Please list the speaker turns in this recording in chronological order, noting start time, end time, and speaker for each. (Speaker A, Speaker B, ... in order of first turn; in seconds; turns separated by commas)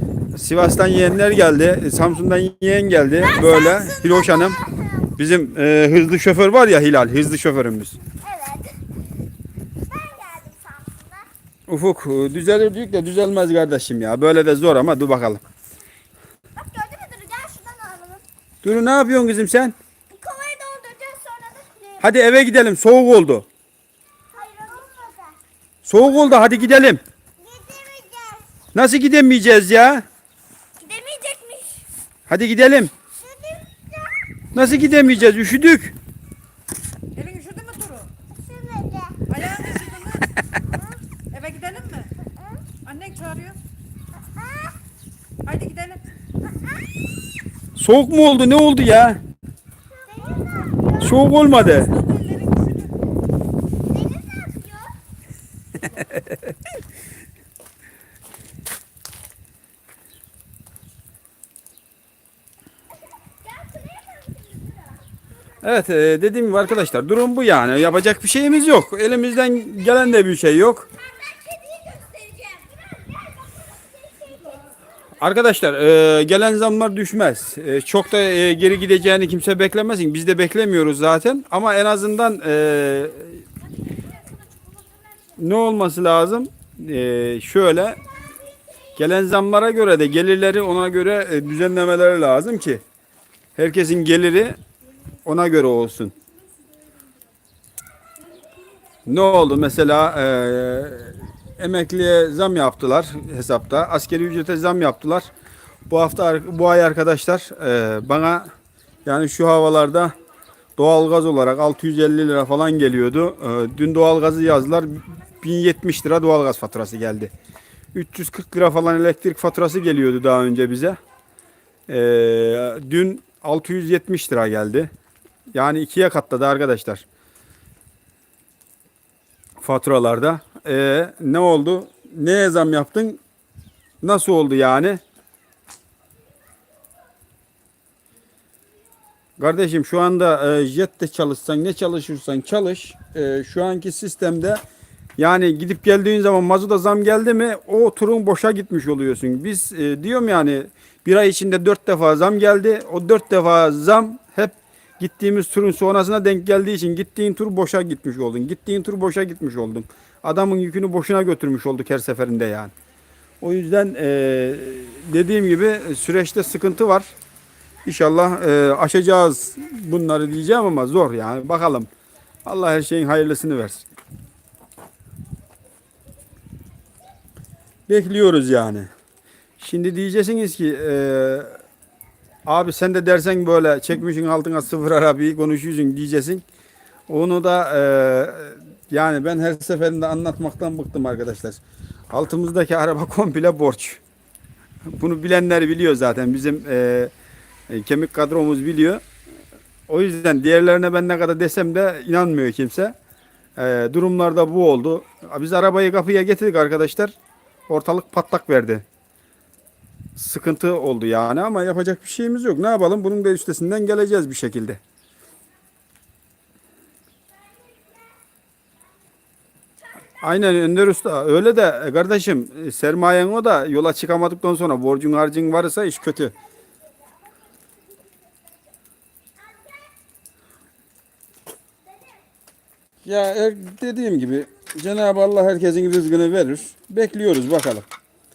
Speaker A: 0.3-4.6, Speaker B: 3.2-5.1, Speaker A: 5.2-8.0, Speaker B: 8.1-8.8, Speaker B: 9.8-11.3, Speaker A: 11.7-15.4, Speaker B: 16.6-18.2, Speaker A: 18.6-19.8, Speaker B: 20.1-22.1, Speaker A: 22.0-23.5, Speaker B: 24.3-25.4, Speaker A: 25.9-27.0, Speaker B: 27.4-28.5, Speaker A: 28.7-30.1, Speaker B: 30.8-31.9, Speaker A: 32.3-32.9, Speaker B: 33.1-34.2, Speaker A: 34.5-36.0, Speaker C: 37.1-38.1, Speaker B: 38.4-39.3, Speaker C: 39.3-40.3, Speaker B: 40.6-41.0, Speaker C: 41.3-42.1, Speaker C: 42.9-43.6, Speaker B: 44.3-44.7, Speaker C: 45.4-46.0, Speaker A: 47.8-49.2, Speaker B: 49.9-51.3, Speaker A: 51.0-51.9, Speaker C: 51.6-52.9, Speaker B: 53.8-55.0, Speaker B: 63.4-65.0, Speaker A: 65.6-70.9, Speaker B: 71.0-74.7, Speaker A: 75.2-83.4, Speaker A: 85.4-88.0, Speaker A: 89.0-92.8, Speaker A: 93.5-94.6, Speaker A: 95.2-96.1, Speaker A: 99.1-105.3, Speaker A: 105.9-108.5, Speaker A: 109.0-110.1, Speaker A: 110.8-117.3, Speaker A: 117.9-121.0, Speaker A: 121.9-124.9, Speaker A: 125.5-127.0, Speaker A: 129.6-133.2, Speaker A: 134.0-135.0, Speaker A: 139.4-144.6, Speaker A: 145.2-162.7, Speaker A: 163.4-167.1, Speaker A: 167.8-171.9, Speaker A: 172.5-173.9, Speaker A: 177.9-178.9, Speaker A: 179.6-181.6, Speaker A: 182.5-186.4, Speaker A: 187.1-194.0, Speaker A: 194.9-197.1, Speaker A: 197.7-199.0, Speaker A: 199.9-202.9, Speaker A: 203.6-207.1, Speaker A: 207.7-208.8, Speaker A: 210.2-214.8, Speaker A: 220.2-226.3, Speaker A: 233.0-237.9